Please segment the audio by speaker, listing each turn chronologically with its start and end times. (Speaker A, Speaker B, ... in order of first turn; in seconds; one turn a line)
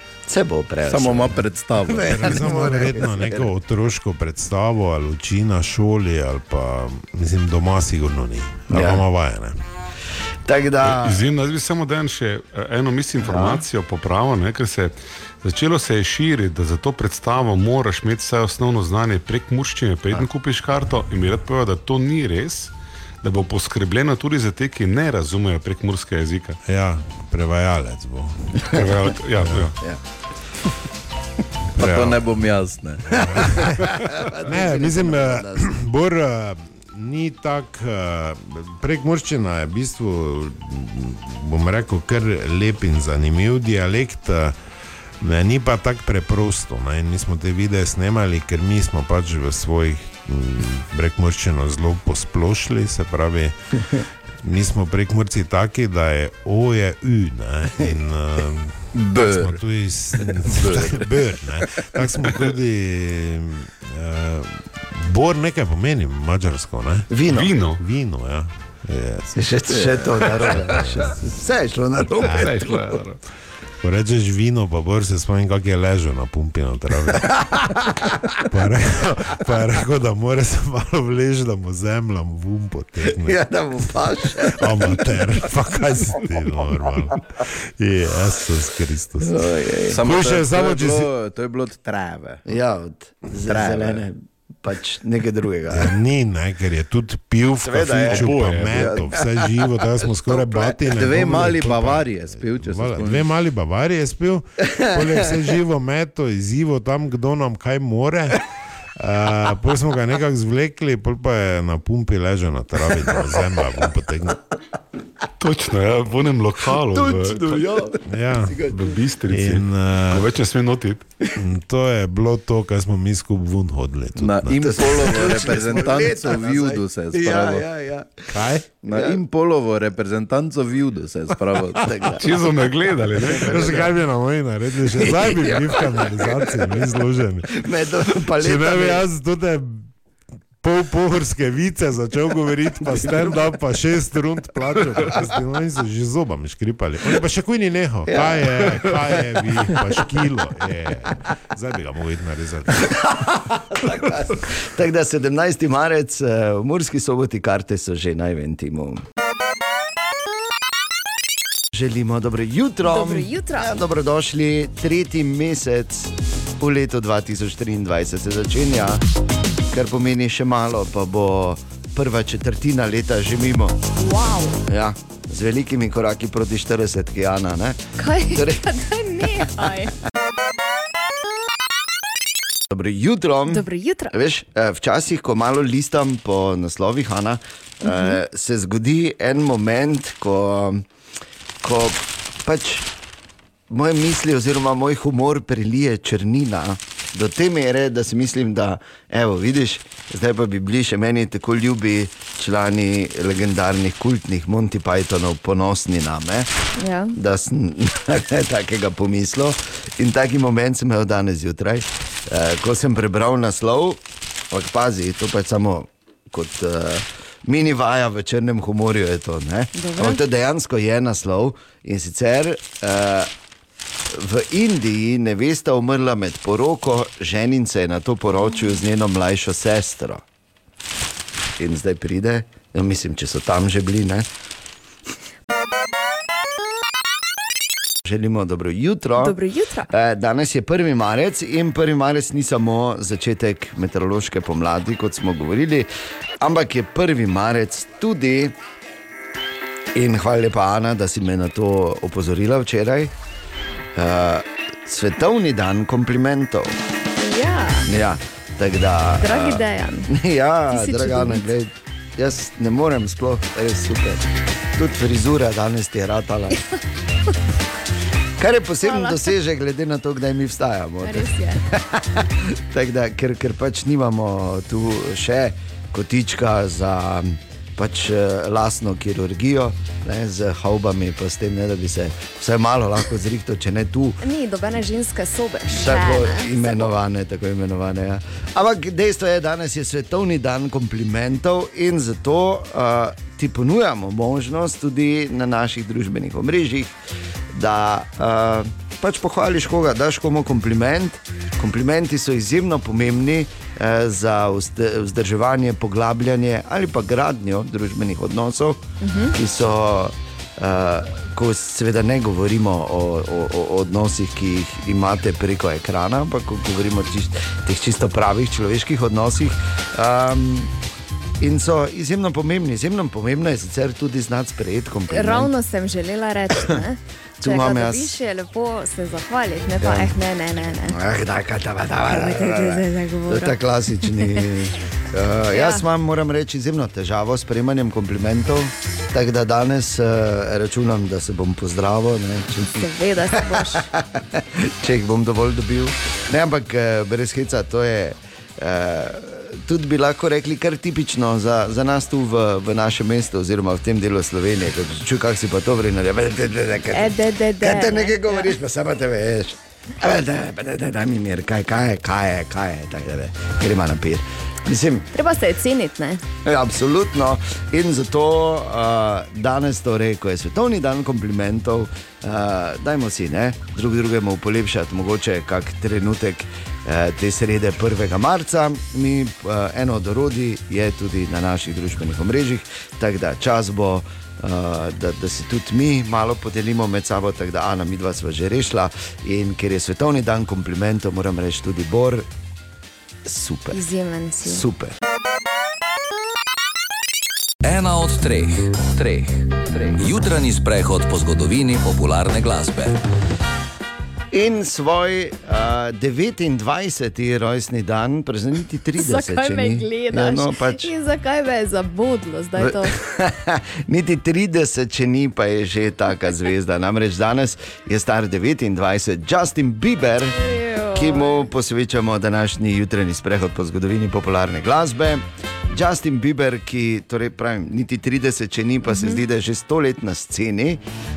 Speaker A: 0.3-3.5
Speaker B: 0.9-2.7
Speaker C: 2.0-9.6
Speaker A: 8.7-9.0
Speaker A: 10.5-11.2
Speaker D: 10.8-26.6
Speaker A: 13.2-13.6
Speaker C: 26.7-28.9
Speaker D: 28.7-29.8
Speaker C: 29.4-29.7
Speaker C: 31.8-32.2
Speaker B: 31.8-33.6
Speaker C: 33.1-44.6
Speaker A: 33.4-35.7
Speaker C: 45.2-53.6
Speaker C: 54.4-67.1
Speaker B: 58.9-59.6
Speaker B: 60.2-61.1
Speaker A: 67.1-67.5
Speaker D: 67.3-67.8
Speaker C: 67.8-71.3
Speaker A: 69.3-73.0
Speaker C: 72.2-72.6
Speaker D: 72.2-73.2
Speaker C: 73.8-77.5
Speaker A: 77.5-78.4
Speaker C: 78.5-91.1
Speaker A: 83.0-85.5
Speaker A: 89.2-90.0
Speaker B: 89.9-92.4
Speaker A: 92.5-95.9
Speaker B: 93.5-94.0
Speaker C: 95.7-108.4
Speaker A: 97.6-99.3
Speaker D: 98.1-99.1
Speaker A: 100.3-100.8
Speaker B: 100.8-103.3
Speaker A: 104.7-105.0
Speaker C: 109.0-114.4
Speaker D: 115.4-117.6
Speaker A: 116.8-119.0
Speaker C: 118.1-118.6
Speaker D: 118.7-121.1
Speaker C: 119.3-120.3
Speaker C: 121.4-125.3
Speaker B: 124.2-127.6
Speaker A: 124.6-129.2
Speaker C: 128.3-128.7
Speaker B: 128.8-132.1
Speaker A: 131.8-132.3
Speaker D: 132.2-133.9
Speaker A: 133.2-133.9
Speaker C: 133.4-139.9
Speaker A: 135.0-136.7
Speaker A: 137.6-139.0
Speaker C: 140.6-153.0
Speaker A: 143.0-143.4
Speaker A: 148.1-149.8
Speaker A: 152.8-159.0
Speaker A: 161.7-169.0
Speaker E: 162.8-163.8
Speaker A: 169.7-173.8
Speaker E: 174.0-174.6
Speaker A: 174.7-178.7
Speaker E: 178.0-179.9
Speaker A: 182.7-190.8
Speaker E: 183.5-184.1
Speaker E: 187.8-188.2
Speaker A: 191.6-192.9
Speaker A: 193.7-206.5
Speaker E: 206.8-207.1
Speaker A: 207.2-214.0
Speaker A: 214.5-223.3
Speaker E: 219.8-220.2
Speaker A: 224.1-230.2
Speaker A: 231.6-234.3
Speaker A: 238.1-239.4
Speaker E: 239.2-239.9
Speaker A: 239.9-245.9
Speaker A: 246.4-248.5
Speaker A: 249.9-253.1
Speaker A: 254.0-256.8
Speaker E: 257.2-257.9
Speaker A: 257.9-266.6
Speaker E: 259.2-260.1
Speaker E: 260.7-261.5
Speaker A: 268.4-284.2
Speaker E: 268.8-269.3
Speaker E: 271.0-271.6
Speaker E: 284.2-286.9
Speaker A: 285.7-296.9
Speaker A: 297.5-320.7
Speaker E: 309.0-309.4
Speaker A: 321.4-325.5
Speaker E: 325.1-331.0
Speaker A: 327.4-328.1
Speaker A: 329.8-330.1
Speaker A: 330.9-365.1
Speaker E: 332.0-334.5
Speaker E: 335.5-335.8
Speaker E: 342.7-343.9
Speaker E: 356.9-358.5
Speaker E: 365.1-366.2
Speaker A: 366.4-392.3
Speaker A: 393.2-393.8
Speaker E: 393.7-394.6
Speaker A: 394.4-394.9
Speaker F: 397.6-403.0
Speaker A: 404.3-410.9
Speaker E: 409.0-412.9
Speaker A: 412.6-420.4
Speaker E: 420.3-421.5
Speaker A: 421.0-430.8
Speaker E: 428.9-429.2